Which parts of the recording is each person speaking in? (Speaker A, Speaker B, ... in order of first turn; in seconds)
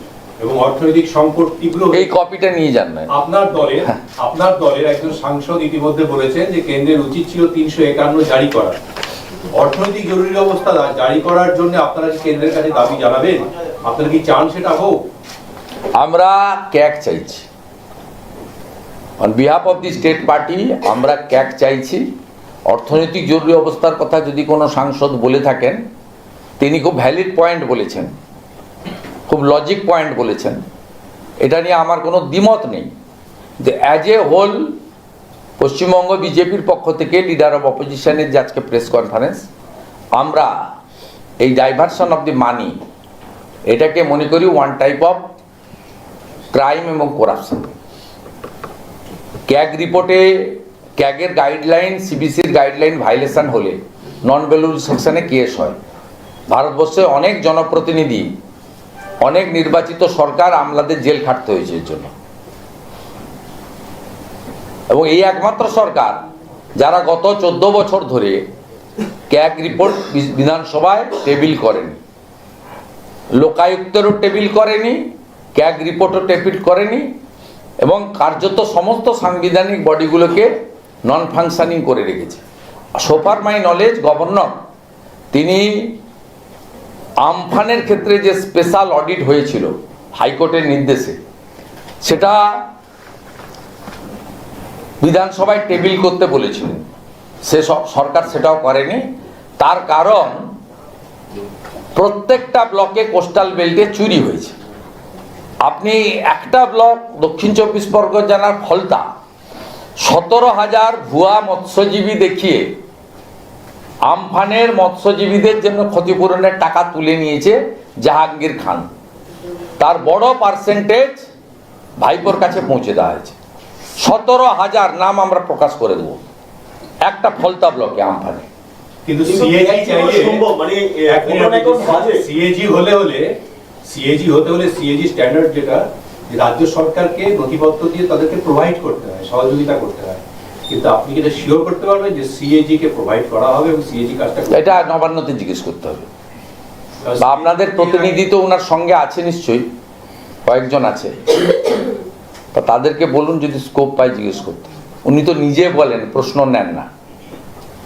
Speaker A: 0.4-2.1, 3.1-8.8, 9.5-15.0, 129.1-130.5, 131.1-133.3, 133.9-144.7, 147.0-148.2
Speaker B: 1.9-3.1, 16.0-17.4, 19.2-22.1, 22.7-25.8, 26.6-28.1, 29.3-30.6, 31.4-32.9, 33.6-34.7, 35.6-39.4, 40.1-40.5, 41.4-42.8, 43.7-45.3, 46.5-47.7, 49.5-55.8, 56.5-58.3, 59.2-62.1, 64.9-66.2, 66.8-68.5, 69.3-72.0, 73.4-75.0, 75.6-77.1, 77.8-80.5, 81.1-82.4, 83.0-84.6, 85.3-85.9, 87.2-91.2, 92.0-92.4, 95.0-96.8, 97.5-99.0, 99.6-100.5, 102.0-104.5, 105.7-109.0, 110.0-112.7, 114.1-118.9, 119.8-121.3, 122.0-123.3, 124.0-126.2, 127.0-128.5, 144.5-146.1, 147.2-149.7, 150.4-151.3, 152.5-156.9
Speaker C: 129.3-132.2